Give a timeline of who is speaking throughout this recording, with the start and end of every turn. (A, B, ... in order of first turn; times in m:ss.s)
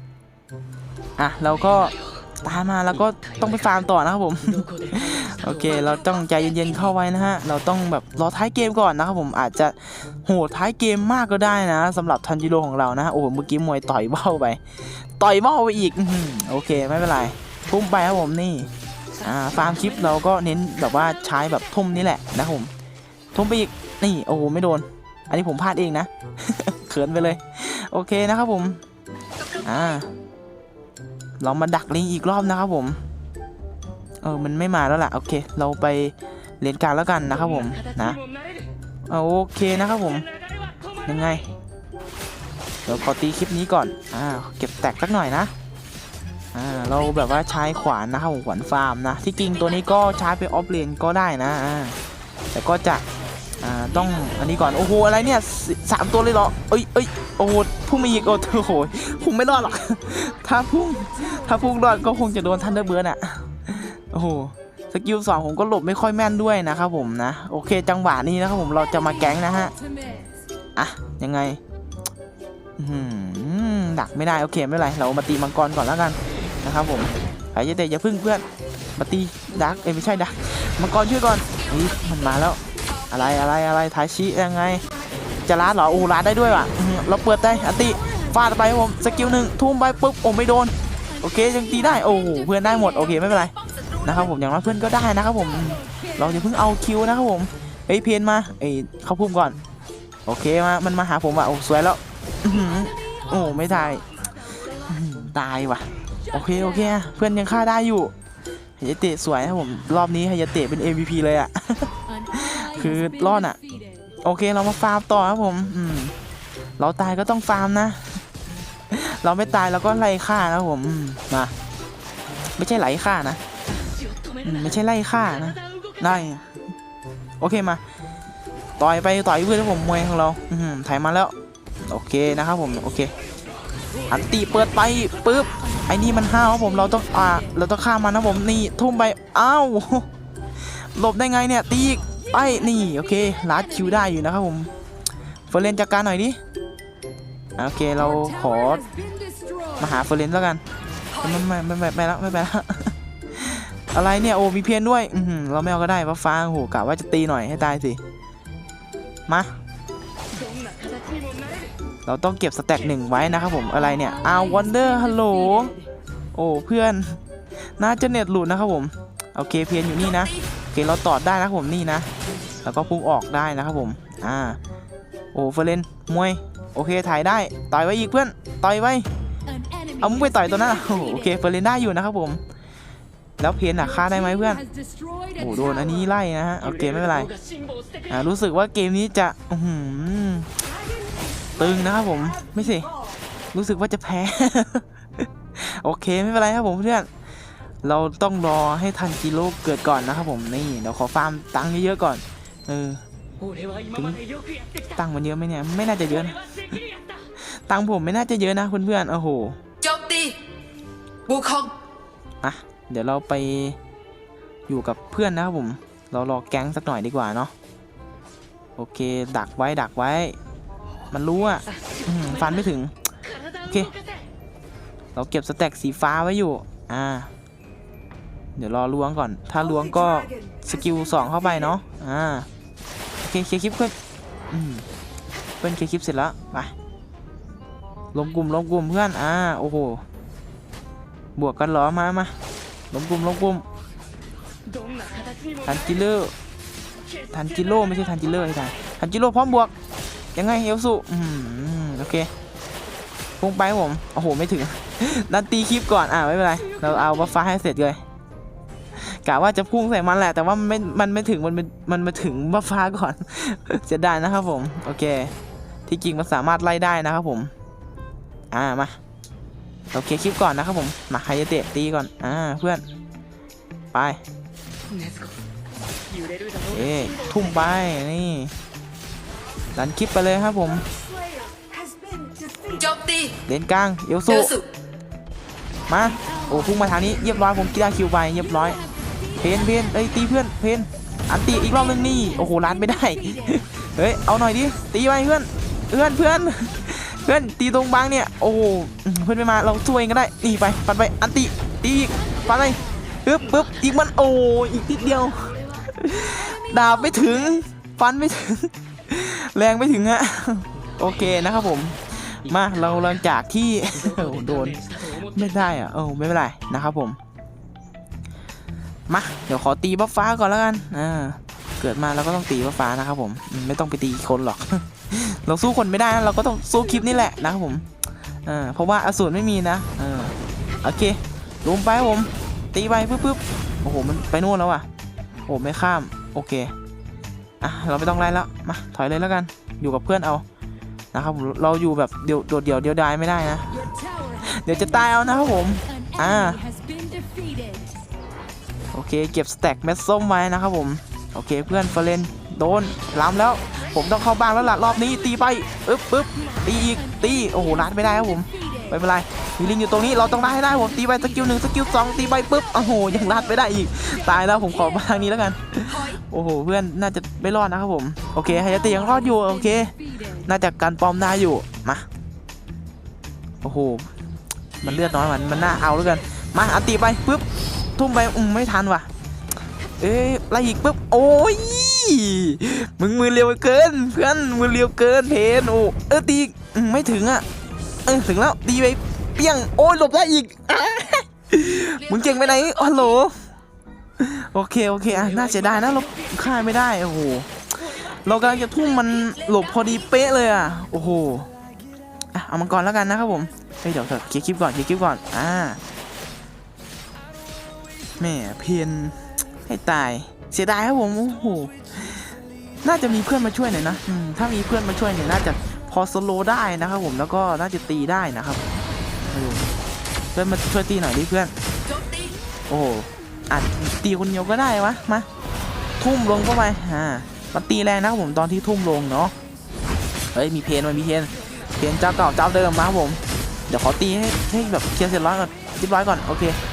0:01.2-0:18.7 A
0:01.6-0:01.9 B
0:02.9-0:03.9 B
0:04.5-0:06.9 B
0:19.2-0:19.9 B
0:19.2-0:22.7 A
0:23.3-0:28.8 A
0:29.4-0:30.0 B
0:29.6-0:30.1 A
0:31.4-0:33.0 A
0:34.2-0:38.2 A
0:37.4-0:38.6 B
0:39.1-0:40.3 A
0:40.6-0:41.1 B
0:41.0-0:41.5 A
0:42.8-0:45.5 A
0:46.5-0:52.0 A
0:52.5-0:53.0 A
0:53.6-1:09.7 A
1:10.8-1:11.6 A
1:12.8-1:18.4 A
1:19.0-1:24.8 A
1:21.5-1:22.3 B
1:22.8-1:23.2 B
1:25.4-1:39.6 A
1:33.6-1:34.1 B
1:35.8-1:36.4 C
1:40.3-1:44.1 A
1:44.8-1:48.1 A
1:48.8-1:53.6 A
1:52.1-1:54.1 C
1:54.2-1:56.1 A
1:56.8-1:58.2 A
1:58.9-2:01.5 A
2:02.6-2:03.4 A
2:04.4-2:06.5 A
2:07.4-2:07.8 A
2:08.8-2:11.3 A
2:11.9-2:13.1 A
2:14.1-2:20.1 A
2:15.9-2:17.5 C
2:20.9-2:24.7 A
2:25.5-2:26.4 A
2:27.6-2:28.8 A
2:28.0-2:29.8 C
2:29.8-2:30.6 A
2:31.1-2:31.4 B
2:31.2-2:38.0 A
2:39.3-2:39.5 A
2:40.4-2:41.7 B
2:42.0-2:45.7 A
2:44.2-2:45.2 C
2:46.3-2:47.2 A
2:47.8-2:52.1 A
2:50.0-2:50.4 B
2:52.6-2:54.6 A
2:55.3-2:59.1 A
2:59.5-3:01.3 C
3:00.0-3:02.4 A
3:03.4-3:04.6 A
3:04.1-3:05.3 C
3:05.3-3:07.3 A
3:06.8-3:07.4 B
3:08.1-3:10.5 A
3:11.6-3:12.9 A
3:13.5-3:17.1 A
3:17.8-3:23.0 A
3:23.4-3:24.9 B
3:23.9-3:24.2 A
3:25.0-3:26.6 A
3:27.4-3:29.6 A
3:29.8-3:30.4 B
3:31.2-3:31.7 B
3:32.4-3:33.8 A
3:34.7-3:37.5 A
3:38.8-3:40.4 A
3:41.1-3:43.1 A
3:43.6-3:43.9 A
3:45.1-3:47.3 A
3:48.6-3:52.5 A
3:53.2-3:54.0 A
3:54.5-3:54.8 A
3:55.6-3:56.7 A
3:58.1-4:00.0 A
4:01.4-4:02.3 A
4:02.9-4:03.6 A
4:04.8-4:05.6 B
4:05.6-4:06.3 A
4:07.3-4:09.7 A
4:10.3-4:12.3 A
4:13.4-4:18.0 A
4:19.0-4:25.3 A
4:25.9-4:27.5 A
4:28.5-4:29.0 A
4:29.9-4:32.8 A
4:33.9-4:34.2 A
4:34.9-4:35.4 B
4:36.1-4:37.3 B
4:36.7-4:38.5 A
4:39.7-4:40.8 A
4:42.4-4:43.4 B
4:43.5-4:44.5 A
4:44.3-4:44.7 B
4:45.9-4:48.8 A
4:48.4-4:49.3 C
4:49.4-5:17.2 A
4:52.2-4:53.6 C
5:14.0-5:15.6 B
5:19.1-5:27.9 A
5:28.4-5:34.8 A
5:35.5-5:36.7 A
5:37.6-5:40.4 A
5:41.1-5:43.9 A
5:43.8-5:44.9 C
5:44.4-5:46.6 A
5:45.9-5:47.9 C
5:48.9-6:09.9 A
5:57.0-5:58.9 C
6:00.3-6:01.3 C
6:05.9-6:06.2 B
6:08.6-6:10.4 C
6:10.4-6:12.0 A
6:13.6-6:14.1 A
6:14.8-6:17.4 A
6:18.0-6:19.1 A
6:20.0-6:27.4 A
6:28.0-6:33.4 A
6:32.1-6:32.8 B
6:34.2-6:41.5 A
6:35.5-6:36.2 B
6:39.0-6:40.0 B
6:42.3-6:45.8 A
6:48.2-6:52.2 A
6:52.8-6:58.6 A
6:59.3-6:59.6 A
7:00.3-7:01.5 A
7:01.8-7:02.4 B
7:02.7-7:05.3 A
7:06.0-7:09.3 A
7:10.3-7:16.6 A